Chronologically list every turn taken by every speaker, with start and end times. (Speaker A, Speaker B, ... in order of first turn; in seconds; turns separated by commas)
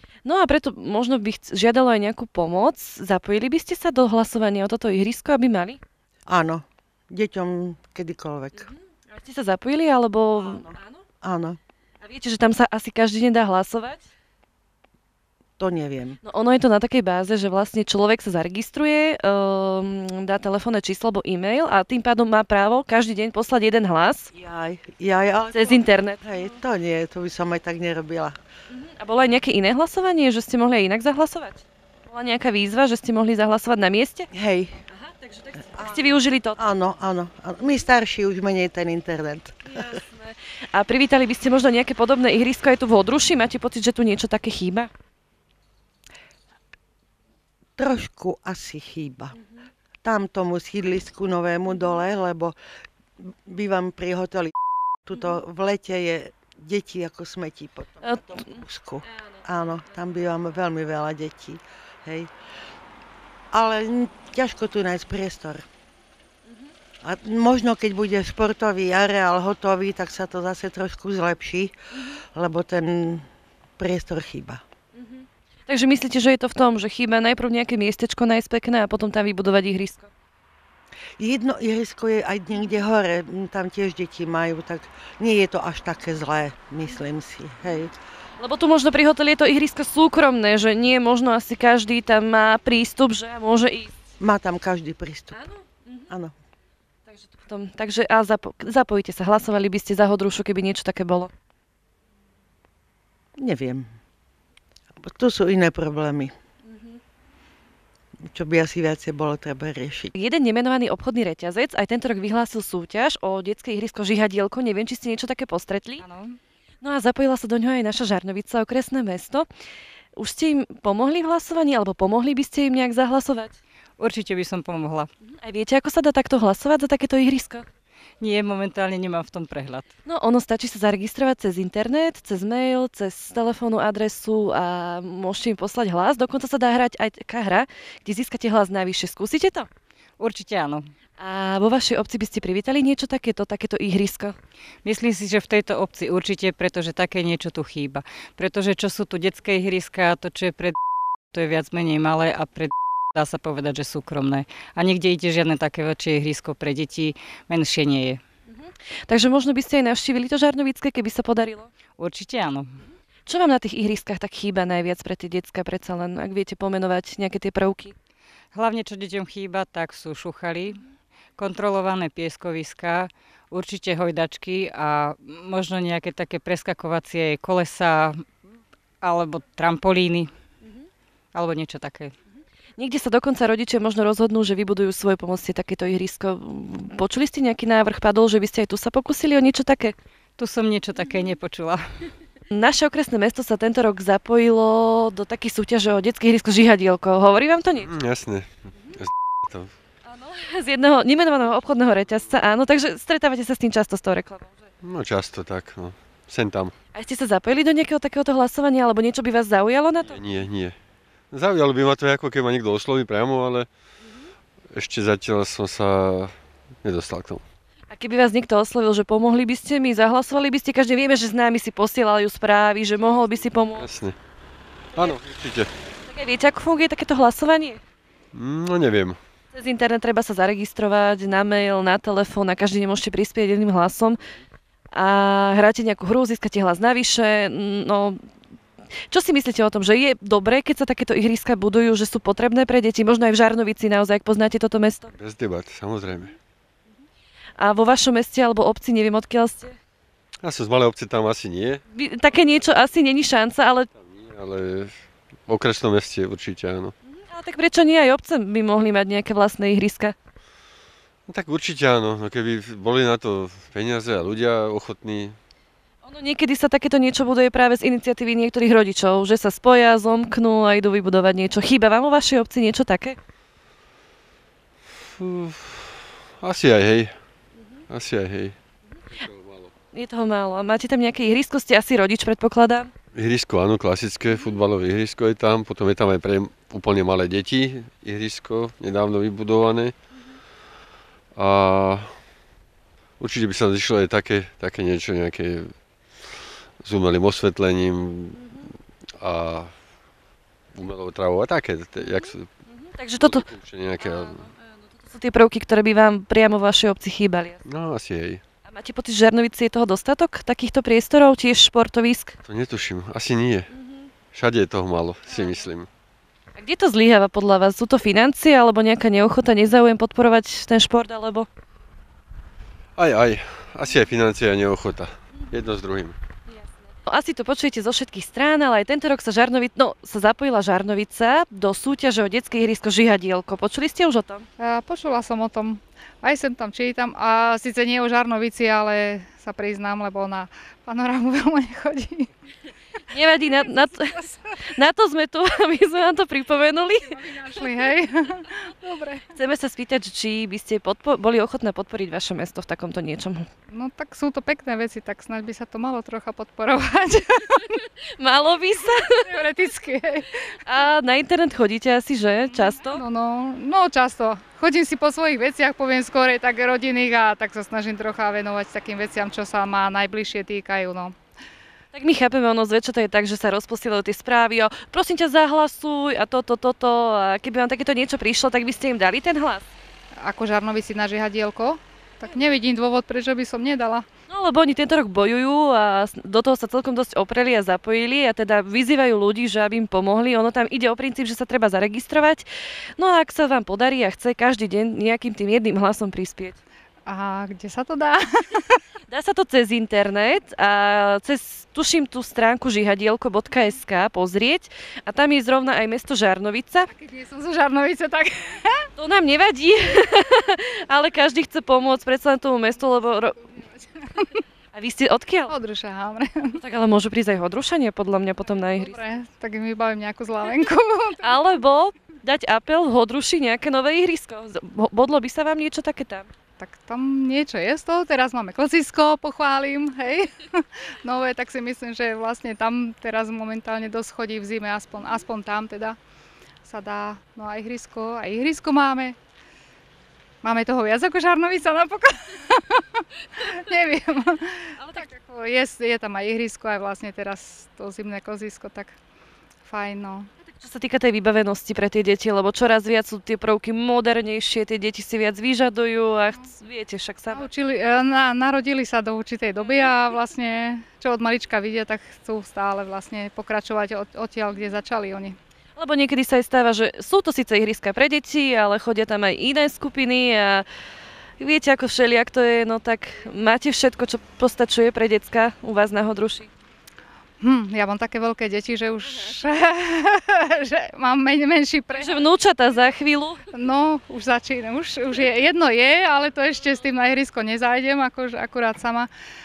Speaker A: 0.2-5.8, Speaker B: 6.3-8.7, Speaker A: 8.6-11.0, Speaker B: 10.4-11.6, Speaker A: 12.0-14.0, Speaker B: 15.6-16.2, Speaker A: 16.2-24.3, Speaker B: 24.3-28.3, Speaker A: 25.5-26.2, Speaker A: 28.7-34.3, Speaker B: 34.3-34.8, Speaker A: 34.9-36.6, Speaker B: 35.8-36.0, Speaker B: 36.5-39.8, Speaker A: 39.7-44.9, Speaker B: 47.8-49.4, Speaker B: 50.0-52.5, Speaker B: 53.2-54.5, Speaker B: 55.0-62.3, Speaker A: 58.0-58.5, Speaker B: 63.5-65.6, Speaker B: 67.0-71.7, Speaker B: 72.3-73.2, Speaker B: 73.8-74.6, Speaker A: 75.0-80.1, Speaker B: 81.2-87.9, Speaker A: 88.4-93.9, Speaker B: 94.2-95.4, Speaker A: 95.4-96.1, Speaker B: 96.1-96.3, Speaker A: 97.1-101.3, Speaker B: 103.4-103.9, Speaker B: 105.0-106.3, Speaker B: 108.3-110.1, Speaker A: 110.1-116.0, Speaker C: 116.0-116.4, Speaker A: 116.8-119.5, Speaker A: 120.2-123.5, Speaker C: 124.0-125.1, Speaker A: 125.3-127.7, Speaker C: 128.2-129.9, Speaker A: 130.0-139.7, Speaker C: 140.2-140.8, Speaker A: 141.2-144.3, Speaker C: 144.8-150.8, Speaker C: 151.3-158.2, Speaker A: 158.5-161.7, Speaker C: 162.0-162.8, Speaker A: 163.2-167.9, Speaker C: 168.5-170.8, Speaker C: 171.4-178.2, Speaker C: 179.0-180.3, Speaker C: 181.3-182.1, Speaker A: 182.8-189.9, Speaker C: 190.4-191.8, Speaker A: 192.5-197.9, Speaker D: 197.8-199.7, Speaker A: 200.1-204.5, Speaker D: 204.8-206.7, Speaker A: 206.9-210.2, Speaker D: 210.1-210.8, Speaker D: 211.3-213.7, Speaker D: 214.7-217.4, Speaker A: 217.9-223.9, Speaker D: 223.7-224.2, Speaker D: 224.9-225.7, Speaker A: 226.0-227.8, Speaker D: 228.3-229.2, Speaker A: 229.5-234.2, Speaker A: 234.9-238.2, Speaker A: 239.1-245.1, Speaker D: 245.1-246.3, Speaker A: 247.6-249.8, Speaker D: 250.4-251.8, Speaker A: 251.9-253.9, Speaker D: 253.9-254.9, Speaker D: 255.5-256.9, Speaker A: 257.0-260.1, Speaker D: 261.3-265.4, Speaker A: 266.0-273.2, Speaker D: 275.2-277.1, Speaker D: 277.9-278.6, Speaker D: 279.1-279.7, Speaker A: 279.9-282.9, Speaker D: 283.1-289.9, Speaker D: 291.3-292.2, Speaker D: 293.2-295.7, Speaker D: 296.2-298.4, Speaker A: 298.3-298.7, Speaker D: 299.2-299.7, Speaker D: 300.7-302.5, Speaker A: 302.0-303.4, Speaker D: 303.2-304.4, Speaker A: 304.0-307.6, Speaker D: 307.6-308.4, Speaker A: 308.6-312.4, Speaker D: 312.4-313.7, Speaker A: 313.8-314.1, Speaker D: 314.3-315.9, Speaker A: 315.3-315.6, Speaker A: 316.6-321.5, Speaker D: 322.9-326.1, Speaker A: 326.5-334.4, Speaker E: 334.6-342.3, Speaker A: 343.1-347.6, Speaker E: 343.6-344.3, Speaker E: 347.1-349.3, Speaker A: 349.3-353.5, Speaker E: 353.7-357.8, Speaker A: 358.2-359.1, Speaker E: 358.9-360.3, Speaker A: 360.6-363.0, Speaker E: 362.4-371.1, Speaker A: 371.9-379.7, Speaker E: 380.2-384.0, Speaker A: 384.3-392.4, Speaker A: 393.0-396.6, Speaker E: 397.1-398.8, Speaker A: 399.1-406.9, Speaker E: 406.9-408.9, Speaker A: 408.9-413.6, Speaker E: 413.7-414.4, Speaker A: 414.7-415.5, Speaker E: 415.5-416.6, Speaker A: 416.5-419.0, Speaker E: 418.6-421.5, Speaker A: 421.2-426.3, Speaker E: 426.6-435.9, Speaker E: 436.6-439.1, Speaker E: 440.4-448.9, Speaker A: 444.8-445.1, Speaker E: 449.6-450.3, Speaker A: 450.6-457.5, Speaker E: 457.3-465.4, Speaker A: 465.8-470.6, Speaker A: 471.4-476.5, Speaker E: 477.4-482.1, Speaker A: 481.9-483.4, Speaker E: 483.5-489.1